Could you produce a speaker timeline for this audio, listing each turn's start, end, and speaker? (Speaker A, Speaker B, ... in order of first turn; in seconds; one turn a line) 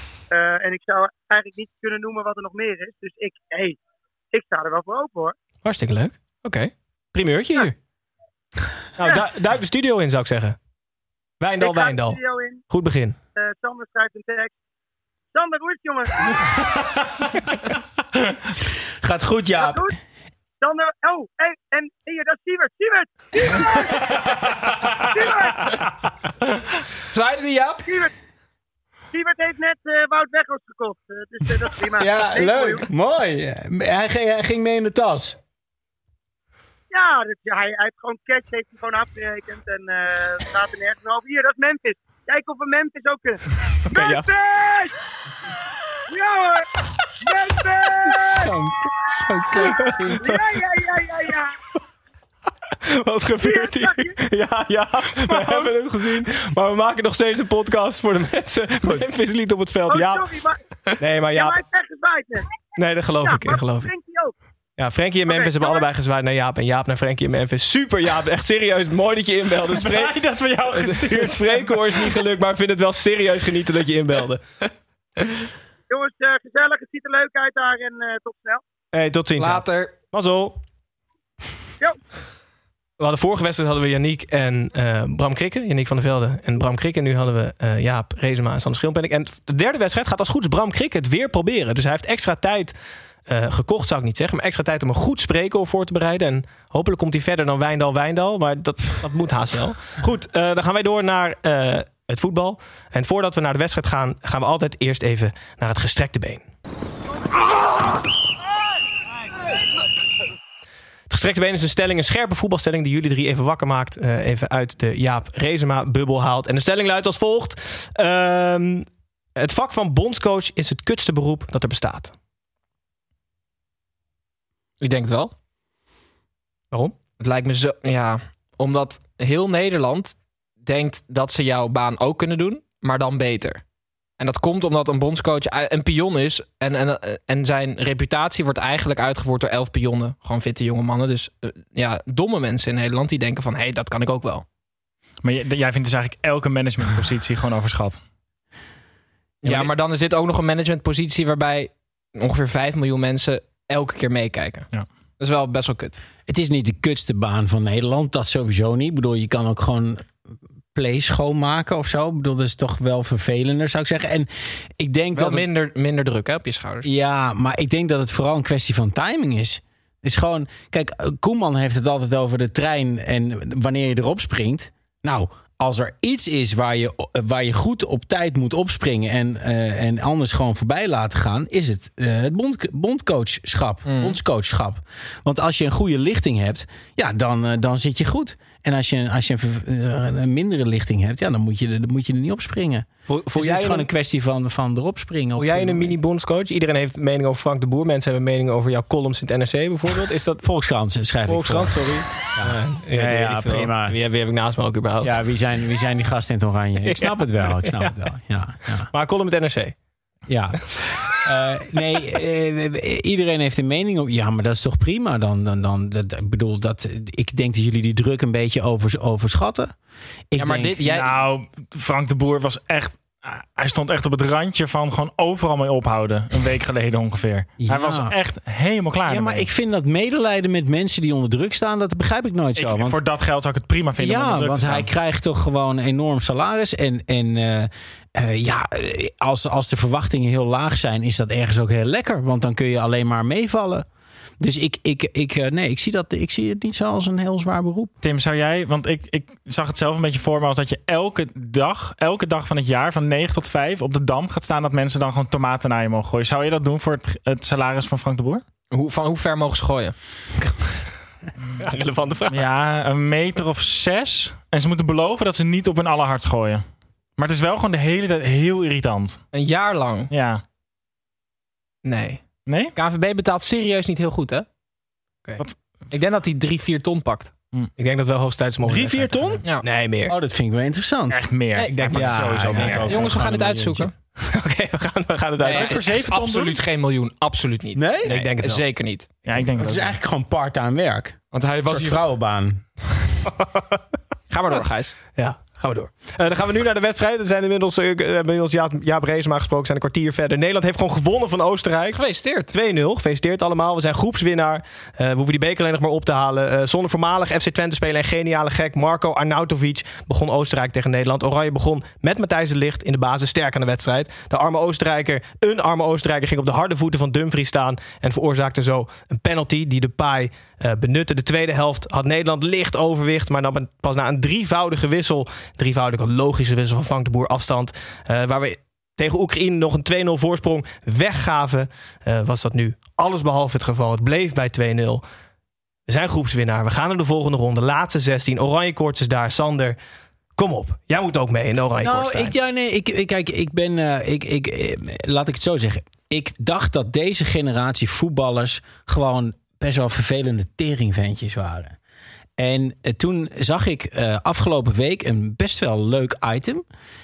Speaker A: 0.3-3.8
Speaker A: 4.3-5.3
Speaker B: 5.6-7.8
Speaker B: 9.0-10.6
Speaker B: 11.4-13.2
Speaker A: 11.6-12.6
Speaker A: 13.3-14.5
Speaker A: 15.3-16.8
Speaker C: 19.0-19.9
Speaker A: 19.6-19.9
Speaker A: 20.6-24.4
Speaker A: 24.9-25.9
Speaker D: 27.1-27.9
Speaker A: 27.9-28.1
Speaker A: 29.1-32.8
Speaker C: 32.0-35.4
Speaker A: 36.9-44.9
Speaker B: 43.9-44.3
Speaker A: 46.1-48.5
Speaker C: 48.0-50.2
Speaker A: 49.5-51.5
Speaker B: 49.8-50.4
Speaker B: 52.9-60.4
Speaker A: 53.4-54.1
Speaker A: 59.9-60.6
Speaker B: 61.0-61.6
Speaker A: 61.3-62.5
Speaker B: 62.8-63.9
Speaker A: 63.2-64.3
Speaker B: 64.8-70.2
Speaker A: 65.3-65.8
Speaker E: 69.7-72.0
Speaker B: 70.7-74.6
Speaker A: 75.9-78.6
Speaker B: 78.9-80.6
Speaker D: 79.4-79.9
Speaker B: 83.0-92.7
Speaker B: 93.2-106.5
Speaker B: 111.1-122.1
Speaker D: 124.8-125.3
Speaker D: 127.2-133.6
Speaker D: 134.2-144.4
Speaker E: 145.2-148.0
Speaker D: 149.4-156.0
Speaker C: 156.3-160.1
Speaker C: 160.7-165.5
Speaker D: 165.1-166.9
Speaker C: 166.8-195.9
Speaker D: 183.8-184.2
Speaker B: 193.1-193.9
Speaker B: 195.4-200.4
Speaker C: 200.4-203.9
Speaker B: 201.3-205.2
Speaker C: 205.0-208.9
Speaker B: 206.8-207.9
Speaker B: 208.9-209.8
Speaker C: 210.3-219.7
Speaker C: 220.3-220.8
Speaker D: 220.4-221.2
Speaker E: 220.8-229.4
Speaker C: 227.6-228.2
Speaker C: 229.1-233.0
Speaker E: 232.6-234.9
Speaker C: 234.0-243.8
Speaker C: 244.4-247.9
Speaker E: 248.0-258.4
Speaker D: 258.7-259.9
Speaker B: 261.6-262.4
Speaker E: 262.3-266.6
Speaker E: 267.2-269.2
Speaker D: 269.3-270.1
Speaker E: 270.1-270.4
Speaker D: 271.8-274.5
Speaker E: 272.4-272.7
Speaker D: 275.9-277.3
Speaker B: 277.8-280.1
Speaker C: 278.6-279.4
Speaker C: 280.1-283.9
Speaker E: 281.1-283.2
Speaker D: 281.5-281.9
Speaker B: 281.9-283.0
Speaker D: 282.8-283.9
Speaker B: 284.3-286.0
Speaker E: 285.4-286.6
Speaker D: 285.4-289.1
Speaker C: 287.7-288.1
Speaker B: 288.1-288.6
Speaker E: 289.2-289.9
Speaker C: 289.5-292.6
Speaker D: 294.3-294.9
Speaker B: 295.1-335.0
Speaker D: 301.9-302.5
Speaker B: 335.9-339.8
Speaker B: 340.3-342.3
Speaker C: 341.8-351.8
Speaker C: 352.4-356.6